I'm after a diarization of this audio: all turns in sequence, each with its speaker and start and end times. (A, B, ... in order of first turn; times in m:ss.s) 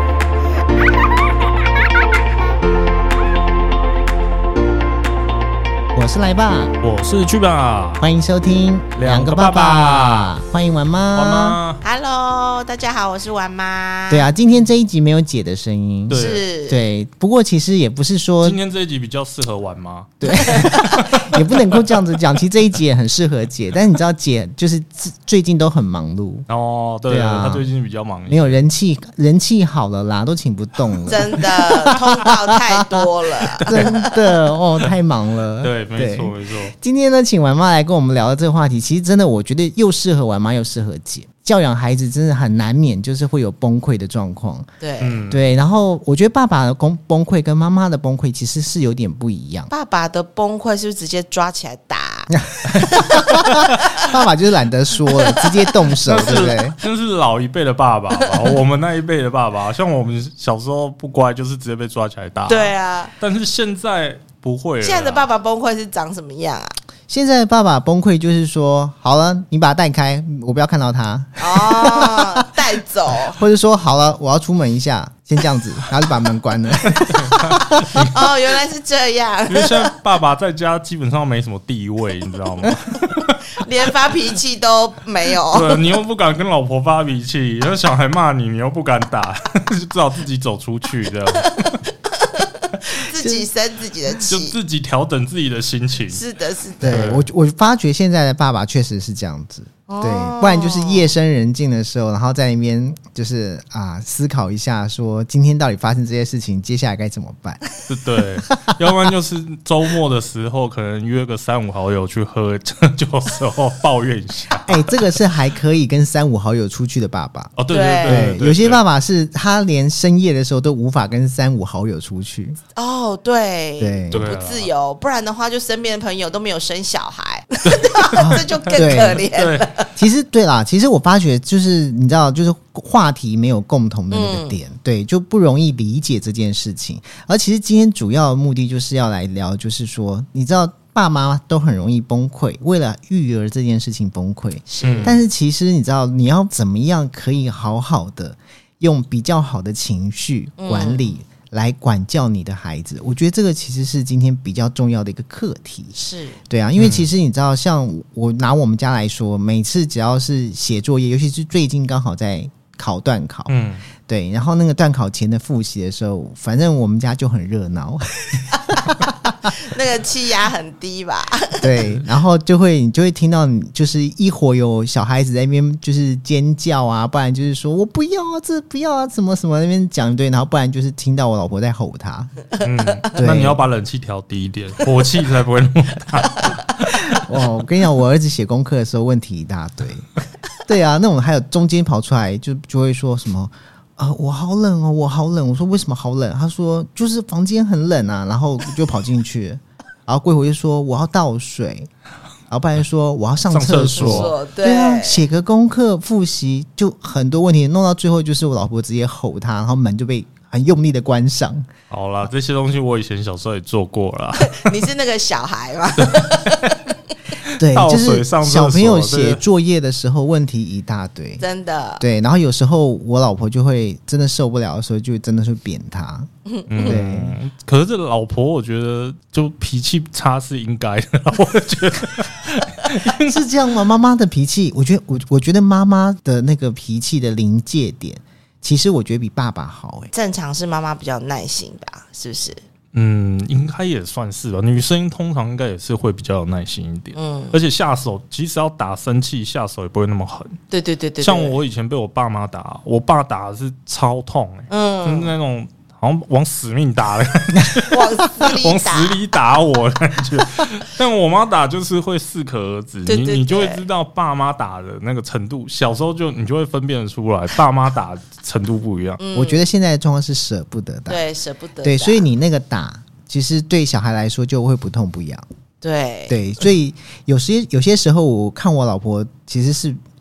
0:06.0-0:06.8 A
0:06.8-0:08.0 B
0:08.0-0:11.6 A
0:09.0-0:10.4 B
0:11.1-0:11.8 B
0:11.8-0:14.3 C
0:14.1-0:18.6 A
0:16.1-0:16.4 B
0:16.1-0:16.8 C
0:18.4-0:22.0 B
0:20.2-0:26.5 A
0:20.3-0:21.2 C
0:26.5-0:28.6 B
0:27.1-0:27.7 A
0:28.3-0:33.0 A
0:31.1-0:34.2 C
0:33.6-0:34.0 B
0:33.7-0:44.7 A
0:35.6-0:36.7 B
0:44.8-0:45.2 C
0:45.0-0:45.4 B
0:45.3-0:49.7 A
0:49.7-0:54.1 C
0:52.5-0:56.8 A
0:55.1-0:55.5 C
0:56.0-1:05.3 B
0:58.2-0:58.5 C
1:02.5-1:03.1 C
1:04.8-1:06.7 C
1:07.1-1:12.5 A
1:11.4-1:13.4 C
1:13.1-1:18.1 A
1:17.1-1:18.1 B
1:17.3-1:19.9 C
1:19.5-1:23.3 B
1:23.6-1:25.8 C
1:25.5-1:31.7 B
1:31.3-1:34.6 C
1:33.2-1:33.5 A
1:34.3-1:36.2 B
1:36.1-1:37.1 C
1:36.8-1:47.6 A
1:36.8-1:37.3 B
1:39.9-1:41.1 C
1:47.9-1:54.7 B
1:48.4-1:48.7 A
1:54.6-1:57.5 A
1:57.6-1:58.8 B
1:57.7-1:58.3 C
1:58.0-2:02.6 A
2:02.8-2:09.9 C
2:03.8-2:04.3 A
2:04.1-2:04.7 B
2:07.7-2:09.7 B
2:08.2-2:09.2 A
2:10.0-2:35.9 A
2:14.1-2:14.6 C
2:24.7-2:25.2 C
2:24.8-2:25.2 B
2:30.6-2:31.0 C
2:35.9-2:36.4 C
2:36.5-2:43.5 A
2:36.8-2:37.1 B
2:43.5-2:43.8 B
2:44.0-2:49.5 A
2:49.4-2:51.8 C
2:51.6-3:02.3 A
3:02.6-3:03.0 C
3:02.6-3:07.2 B
3:03.2-3:03.6 A
3:07.1-3:10.1 A
3:10.7-3:21.9 A
3:22.5-3:31.7 A
3:23.5-3:24.3 B
3:24.0-3:25.2 C
3:31.9-3:34.8 B
3:34.4-3:36.8 C
3:36.0-3:36.9 B
3:37.4-3:39.4 B
3:37.6-3:41.4 A
3:41.4-3:42.0 C
3:42.0-3:46.3 A
3:46.5-3:47.0 C
3:46.7-3:53.5 B
3:46.8-3:47.4 A
3:53.0-4:00.1 A
4:00.1-4:02.6 C
4:02.9-4:10.6 B
4:07.1-4:07.6 C
4:10.7-4:11.6 C
4:11.2-4:29.2 B
4:14.7-4:15.3 C
4:17.8-4:19.2 C
4:23.1-4:23.8 C
4:29.2-4:29.6 C
4:29.3-4:31.2 A
4:31.1-4:32.3 C
4:31.8-4:35.4 A
4:35.8-4:36.4 C
4:36.3-4:40.0 A